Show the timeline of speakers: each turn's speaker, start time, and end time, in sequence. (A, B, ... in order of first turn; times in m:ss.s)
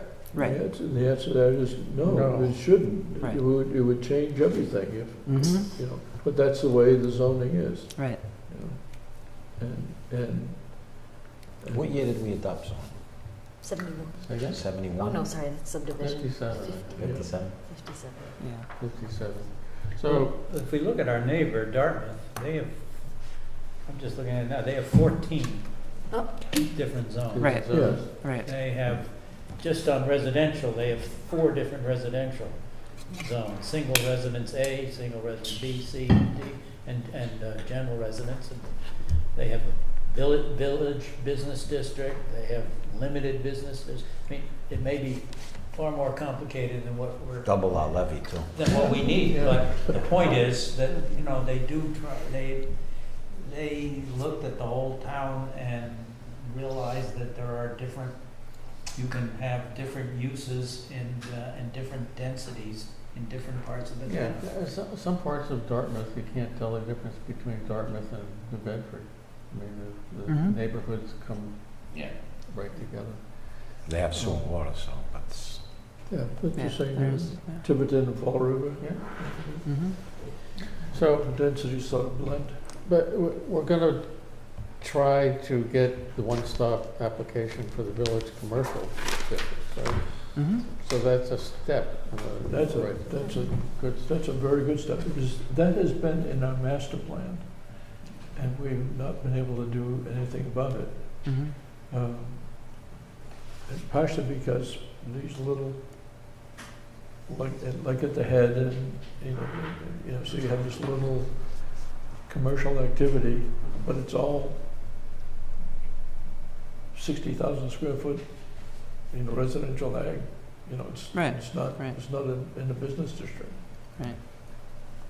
0:00.3-0:00.6 A
0:00.4-0:12.0 B
0:02.0-0:02.6 C
0:05.3-0:05.7 A
0:08.0-0:08.2 A
0:11.7-0:13.0 D
0:13.6-0:18.4 E
0:14.2-0:14.6 C
0:14.5-0:15.4 D
0:16.0-0:17.2 C
0:17.0-0:17.6 D
0:17.0-0:17.3 B
0:18.4-0:18.7 A
0:18.6-0:20.4 C
0:20.2-1:04.4 F
0:26.1-0:26.5 E
0:27.3-0:28.2 C
0:27.4-0:28.5 A
0:27.7-0:28.0 B
0:47.4-0:48.5 D
0:48.7-0:50.4 B
1:04.0-1:14.4 C
1:10.3-1:10.6 A
1:11.9-1:12.2 F
1:13.8-1:15.7 D
1:16.1-1:22.7 B
1:16.5-1:17.6 A
1:18.8-1:19.2 C
1:19.6-1:20.0 A
1:20.9-1:21.3 C
1:22.8-1:34.1 C
1:30.3-1:30.6 A
1:32.4-1:42.9 B
1:33.2-1:33.5 E
1:41.2-1:41.6 A
1:43.7-1:45.8 B
1:47.3-1:54.6 B
1:56.9-2:03.6 B
2:01.1-2:02.0 A